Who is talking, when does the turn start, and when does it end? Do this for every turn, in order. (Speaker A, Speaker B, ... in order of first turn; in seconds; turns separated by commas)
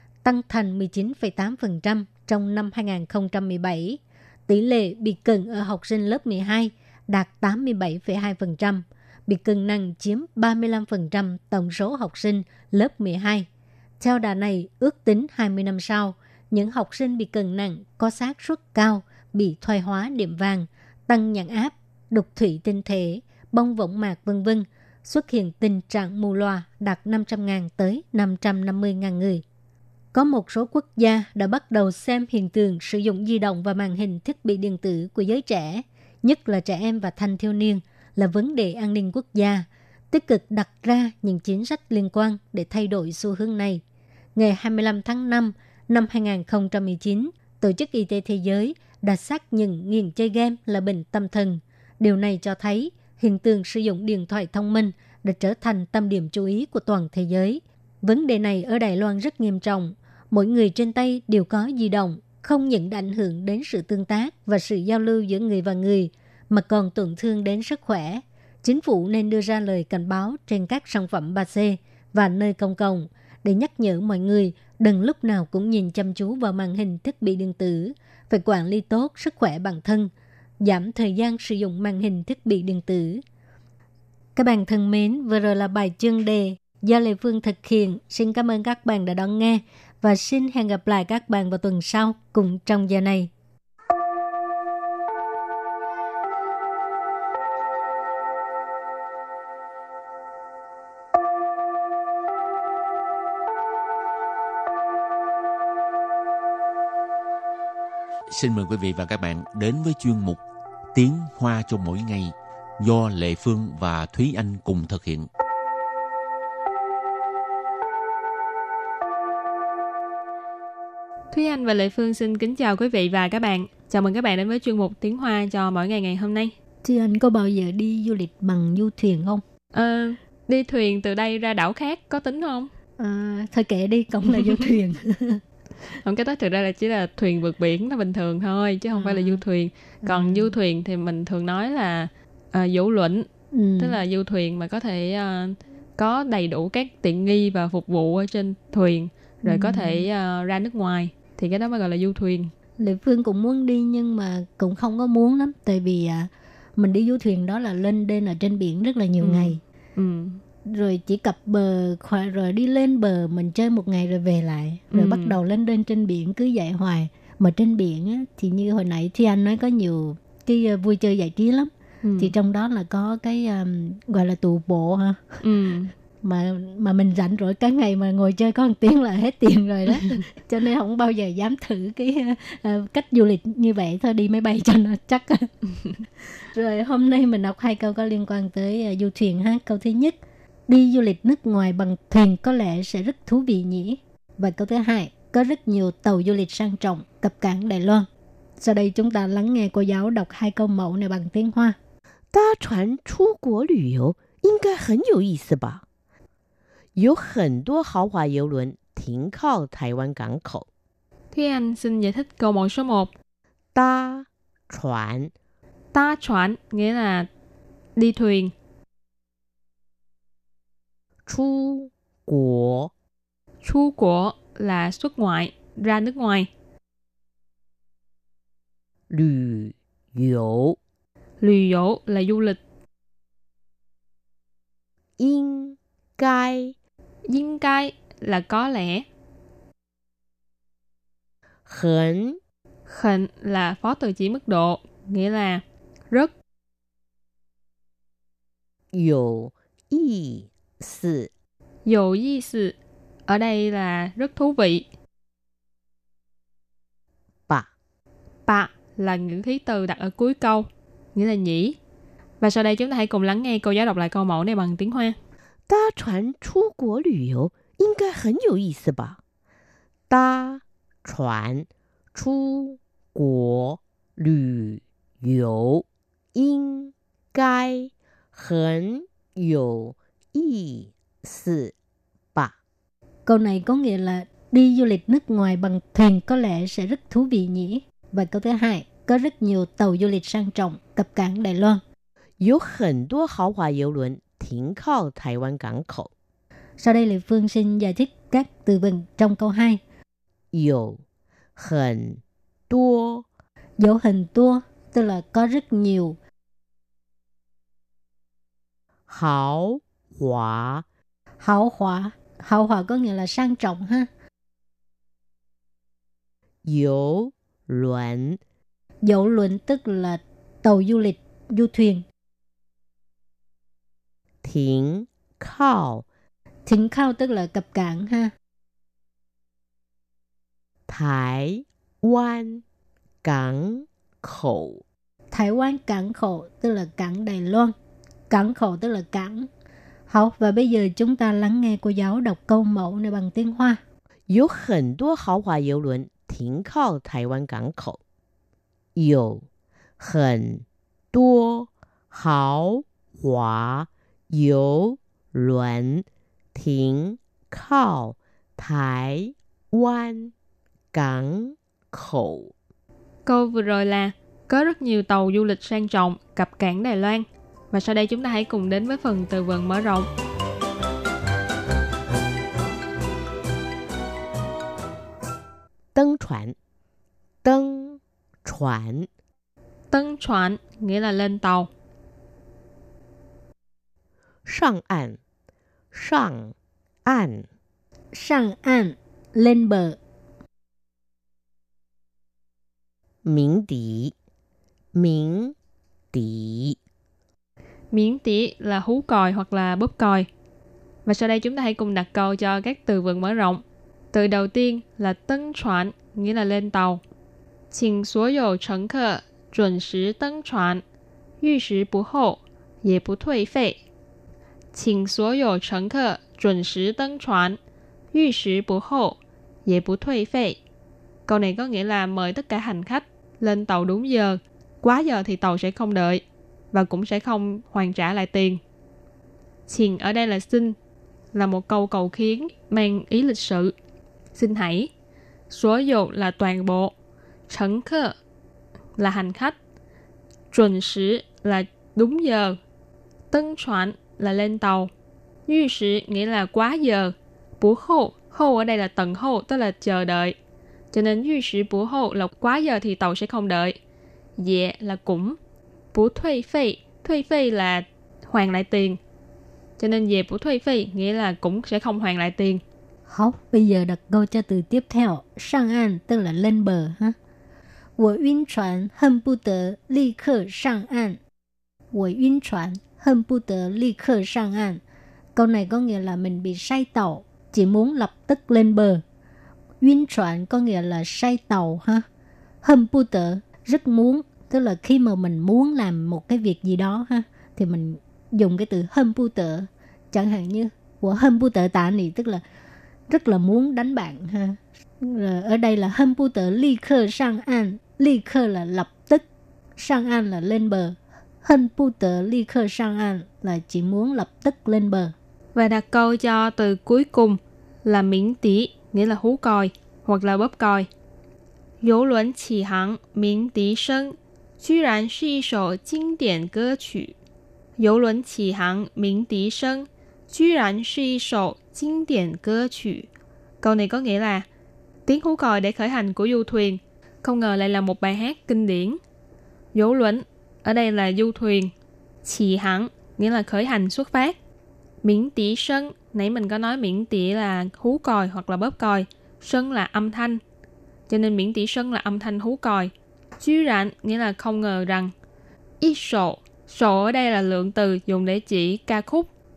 Speaker A: 0.2-13.5, Speaker A: 14.0-29.4, Speaker A: 30.1-43.8, Speaker A: 44.4-83.2, Speaker A: 84.3-93.3, Speaker B: 108.3-110.4, Speaker B: 110.9-115.3, Speaker C: 121.3-126.5, Speaker A: 126.8-129.4, Speaker C: 129.7-132.7, Speaker A: 133.0-135.4, Speaker C: 136.0-143.3, Speaker A: 138.9-139.4, Speaker A: 140.0-140.6, Speaker A: 143.5-144.0, Speaker C: 143.8-152.5, Speaker A: 149.4-150.1, Speaker A: 152.8-159.6, Speaker C: 159.2-160.4, Speaker A: 160.7-175.4, Speaker C: 164.9-165.4, Speaker C: 172.0-172.3, Speaker C: 175.4-175.9, Speaker A: 176.2-185.6, Speaker A: 186.4-198.1, Speaker A: 198.6-201.8, Speaker D: 202.3-205.8, Speaker D: 206.9-210.7, Speaker C: 211.3-213.1, Speaker D: 213.7-215.3, Speaker C: 215.9-217.3, Speaker C: 218.0-218.5, Speaker D: 221.3-222.9, Speaker C: 223.6-226.5, Speaker D: 229.1-230.8, Speaker C: 231.4-232.6, Speaker D: 235.2-236.7, Speaker C: 237.3-239.1, Speaker D: 241.7-242.4, Speaker C: 242.9-246.3, Speaker D: 248.9-251.3, Speaker C: 251.8-252.7, Speaker C: 253.3-254.8, Speaker C: 258.5-261.8, Speaker C: 262.4-265.1, Speaker D: 265.7-269.2, Speaker D: 270.1-281.7, Speaker A: 283.2-291.8, Speaker D: 292.4-296.1, Speaker A: 296.8-299.8, Speaker D: 300.5-301.0, Speaker D: 301.6-303.2, Speaker A: 303.8-306.2, Speaker D: 309.1-310.8, Speaker A: 311.4-314.1, Speaker D: 316.6-318.4, Speaker A: 319.0-322.0, Speaker D: 324.4-326.0, Speaker A: 326.6-328.3, Speaker D: 330.9-332.6, Speaker D: 333.2-334.8, Speaker A: 335.3-337.7, Speaker A: 338.3-339.5, Speaker A: 340.1-343.8, Speaker D: 344.3-348.0, Speaker D: 348.9-349.4, Speaker D: 350.0-360.3, Speaker D: 360.9-362.5, Speaker C: 363.2-370.1, Speaker D: 375.9-376.5, Speaker D: 377.4-379.1, Speaker C: 379.9-381.7, Speaker D: 384.4-385.2, Speaker D: 385.9-386.5, Speaker D: 387.1-387.5, Speaker A: 388.1-390.0, Speaker D: 393.2-394.1, Speaker D: 394.9-395.5, Speaker D: 396.1-396.8, Speaker C: 397.9-400.3, Speaker C: 401.1-407.0, Speaker C: 407.7-410.8, Speaker C: 411.4-413.8, Speaker C: 414.7-417.6, Speaker C: 418.1-420.6, Speaker C: 421.3-428.6, Speaker C: 429.7-430.8, Speaker C: 431.3-433.7, Speaker C: 434.3-434.9, Speaker C: 435.5-436.9, Speaker C: 437.5-438.1, Speaker C: 439.0-439.6, Speaker C: 440.5-442.6, Speaker C: 443.3-444.9, Speaker C: 445.5-450.3, Speaker C: 450.9-453.8, Speaker C: 454.4-455.4, Speaker C: 455.9-459.0, Speaker C: 459.8-462.6, Speaker A: 463.1-467.2, Speaker A: 468.0-471.2, Speaker A: 471.9-474.8, Speaker A: 475.3-479.0, Speaker A: 479.8-482.1, Speaker A: 482.6-492.4, Speaker A: 493.1-499.2, Speaker A: 499.8-505.1, Speaker C: 505.5-510.9, Speaker C: 511.8-517.1, Speaker C: 517.8-523.1, Speaker C: 523.6-524.5, Speaker C: 525.0-529.0, Speaker C: 529.7-531.7, Speaker C: 532.2-534.3, Speaker C: 535.0-540.4, Speaker C: 541.1-545.1, Speaker C: 545.8-549.3